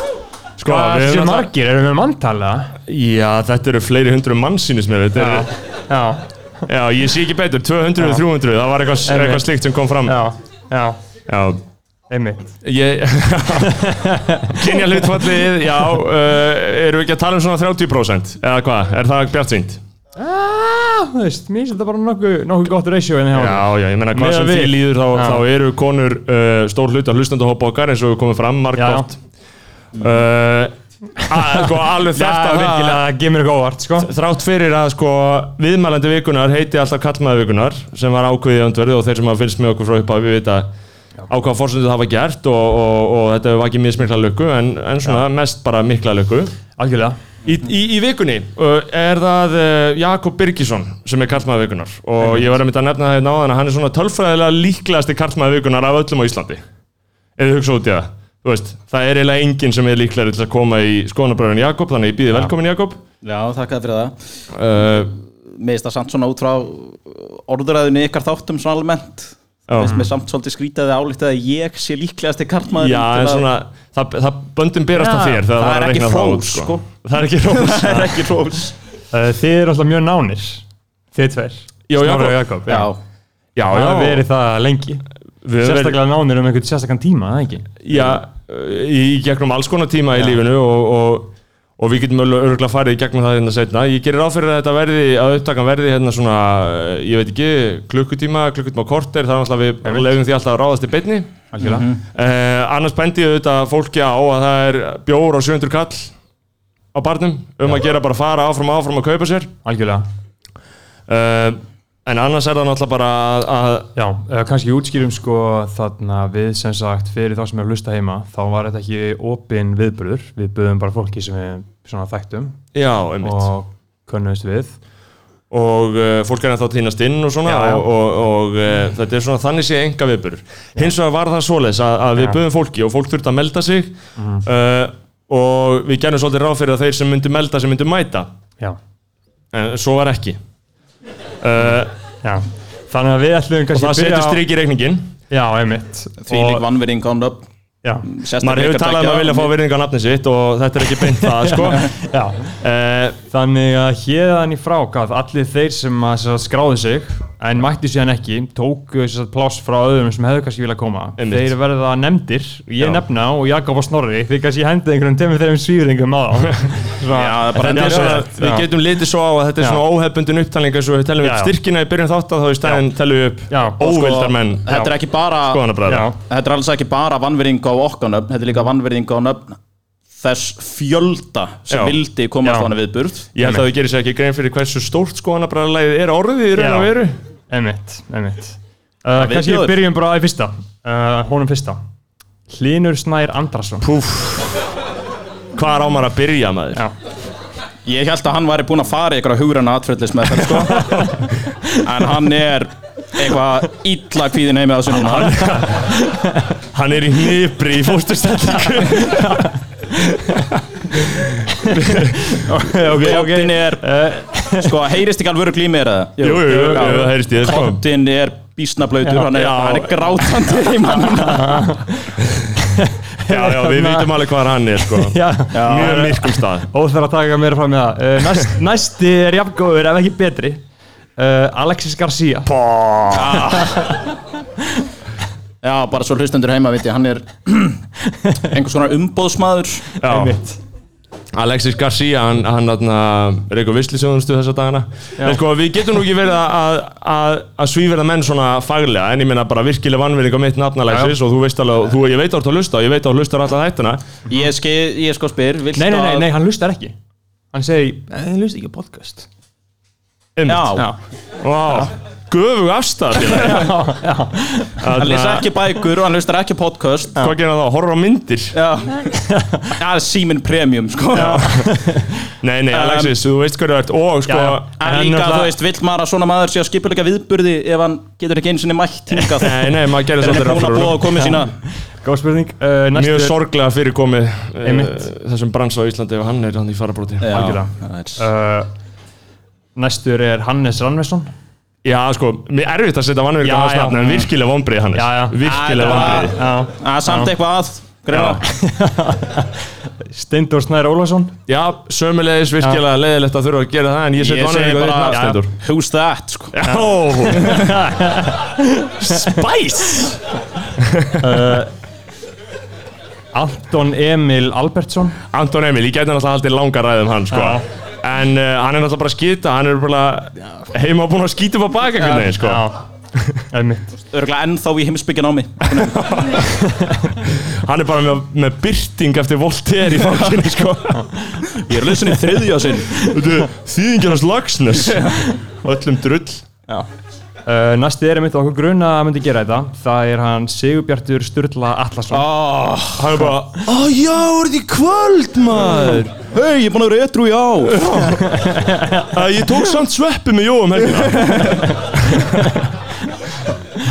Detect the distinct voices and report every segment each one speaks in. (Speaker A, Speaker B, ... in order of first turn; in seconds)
Speaker A: 0.6-1.5, 2.9-5.5, 6.7-10.2, 11.3-11.6, 12.6-19.8, 23.3-29.2, 29.9-33.0, 34.0-40.7, 41.3-46.5, 47.4-56.6, 57.4-63.0, 64.5-65.1, 69.7-70.0, 72.8-78.3, 81.9-82.4, 83.5-84.2, 85.4-86.0, 87.8-101.3, 102.1-106.1, 106.9-109.5, 111.1-113.9, 122.7-123.5, 125.5-138.3, 139.5-140.4, 141.4-141.9, 143.7-145.1, 148.4-151.9, 152.6-153.2, 161.2-161.5, 167.5-174.8, 175.5-176.1, 181.7-182.0, 183.3-187.2, 193.8-194.5, 195.5-196.8, 205.0-206.0, 206.6-209.5, 210.3-212.4, 216.2-217.8, 219.3-220.1, 223.2-226.7, 232.6-233.3, 240.0-240.4, 241.3-254.0, 260.4-260.8, 261.4-263.8, 264.8-265.5, 267.1-268.6, 271.1-271.7, 272.4-274.7, 279.4-281.1, 282.9-287.5, 291.8-296.4, 298.1-298.4, 301.5-305.5, 306.5-307.6, 309.0-310.1, 310.8-311.6, 315.3-323.4, 325.7-326.4, 327.2-331.2, 332.9-336.5, 342.9-346.1, 347.7-348.3, 349.0-352.6
Speaker B: 0.6-2.8, 5.2-6.3, 9.1-9.4, 10.0-11.0, 12.1-12.6, 13.6-14.6, 20.2-25.4, 28.8-29.1, 31.3-34.1, 46.8-47.2, 75.0-75.5, 79.1-82.9, 83.7-85.0, 85.6-87.8, 101.5-101.9, 109.6-110.0, 114.0-122.6, 123.2-124.8, 127.4-127.8, 134.2-134.4, 142.2-144.4, 145.3-146.6, 147.8-148.1, 151.2-152.5, 153.3-168.7, 171.2-171.5, 173.5-173.8, 175.9-176.2, 182.4-182.7, 186.6-186.9, 187.5-191.8, 192.5-193.9, 205.2-206.5, 208.6-209.5, 211.3-214.8, 216.5-217.1, 221.1-224.3, 224.8-230.6, 231.2-234.1, 240.0-240.6, 255.8-256.9, 257.5-259.3, 263.2-264.8, 269.0-269.8, 271.1-272.3, 274.3-275.5, 281.1-283.4, 284.6-285.1, 287.3-288.7, 289.8-291.3, 293.4-294.3, 294.9-297.3, 298.2-301.4, 305.1-305.4, 306.6-310.1, 311.2-311.7, 313.3-315.2, 317.3-317.6, 322.1-322.8, 323.5-323.9, 326.4-327.1, 337.4-342.2, 348.1-349.1
Speaker C: 63.2-64.1, 65.5-73.4, 75.5-76.8, 77.4-78.7, 82.7-83.0, 101.6-102.0, 146.2-147.4, 148.1-149.5, 167.1-168.2, 173.8-179.6, 180.2-183.3, 189.2-189.8, 197.8-201.1, 201.7-205.6, 212.9-213.9, 214.4-221.6, 225.5-226.0, 233.1-233.9, 235.6-237.8, 238.4-239.9, 254.3-256.3, 260.5-260.8, 264.9-267.3, 268.5-269.1, 269.8-271.5, 272.7-273.1, 274.8-281.5, 287.2-288.2, 295.4-298.4, 304.2-306.6, 307.5-307.7, 324.1-326.3, 331.5-333.0, 342.1-343.2, 346.3-348.0, 350.9-351.7